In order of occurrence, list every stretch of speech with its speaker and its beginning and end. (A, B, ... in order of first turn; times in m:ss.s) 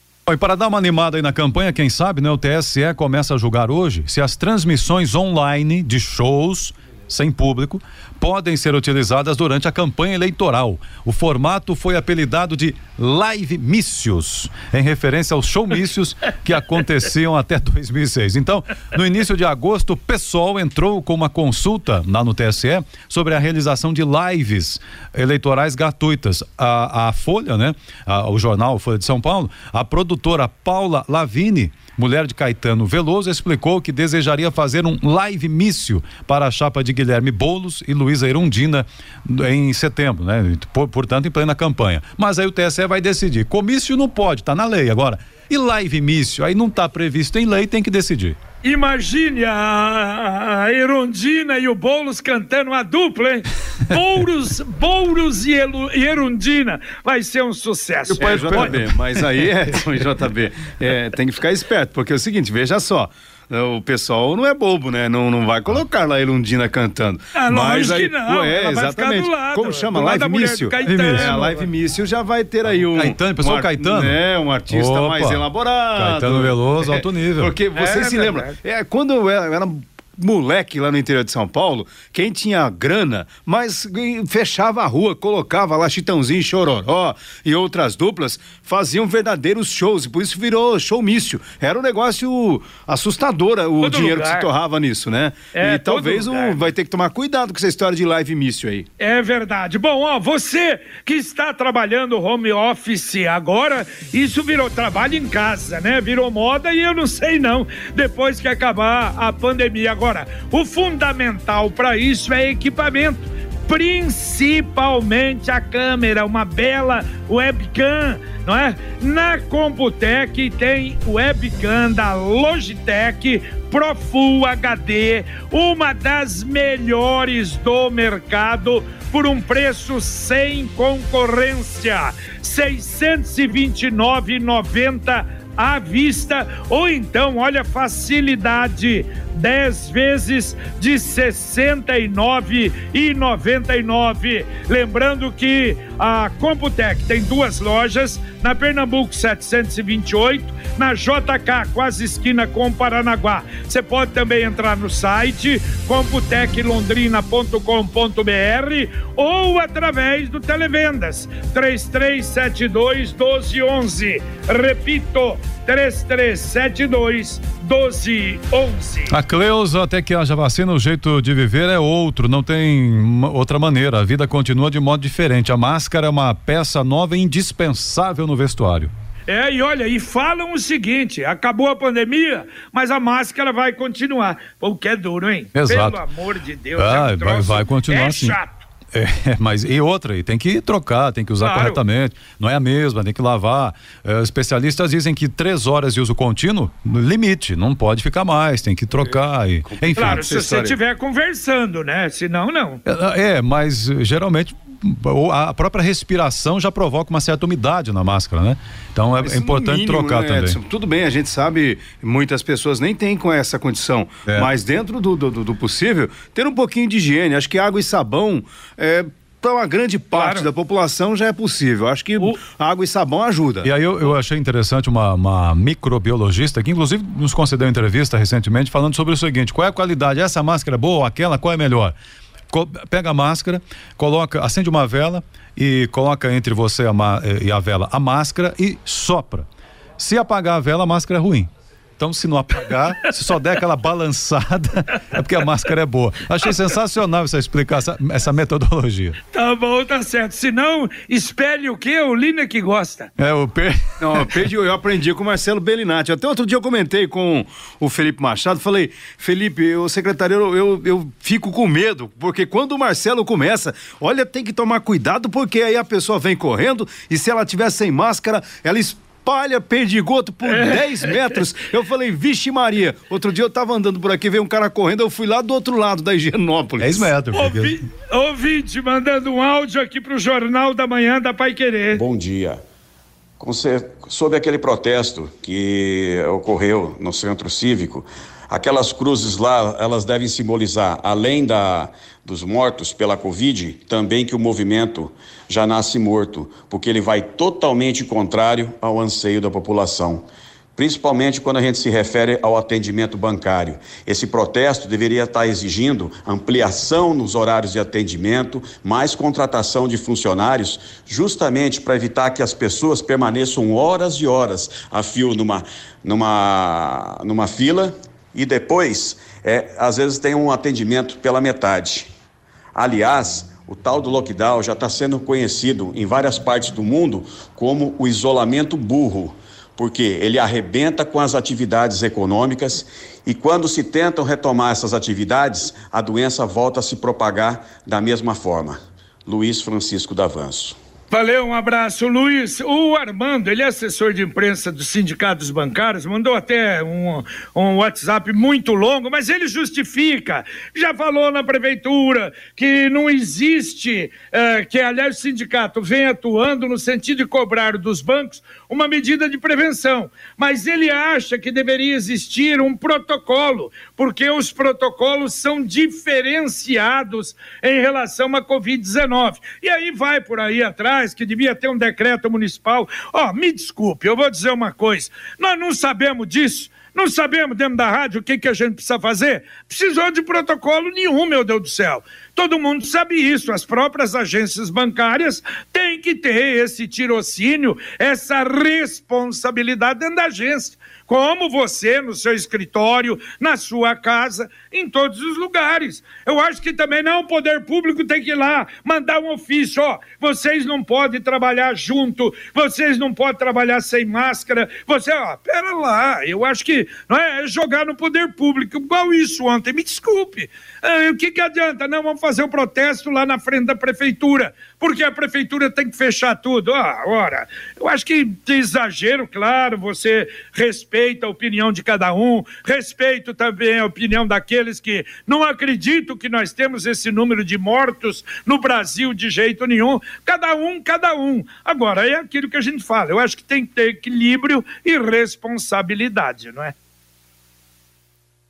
0:00.3-0:48.4 A
0:48.6-0:58.8 B
0:58.1-1:38.9 C
0:58.2-0:59.4 A
1:07.3-1:11.7 B
1:10.8-1:11.4 A
1:12.7-1:14.2 A
1:14.7-1:17.5 A
1:17.8-1:18.6 B
1:33.8-1:34.5 B
1:35.5-1:36.6 B
1:39.0-2:49.2 B
2:49.1-2:58.9 A
2:59.3-3:08.7 B
3:05.6-3:06.0 A
3:06.8-3:08.4 A
3:08.9-3:20.3 A
3:11.4-3:11.8 B
3:19.7-3:20.8 C
3:20.0-3:22.8 B
3:22.9-3:30.6 A
3:29.2-3:43.7 C
3:40.2-3:40.5 B
3:43.6-3:51.9 A
3:52.5-3:59.5 A
4:00.0-4:09.2 A
4:09.3-4:13.1 B
4:13.2-4:14.5 A
4:14.0-4:37.1 C
4:30.5-4:31.4 B
4:36.8-4:37.8 A
4:37.3-4:42.0 B
4:41.9-4:42.6 D
4:43.4-5:22.1 D
5:22.8-5:40.8 D
5:41.1-7:16.7 B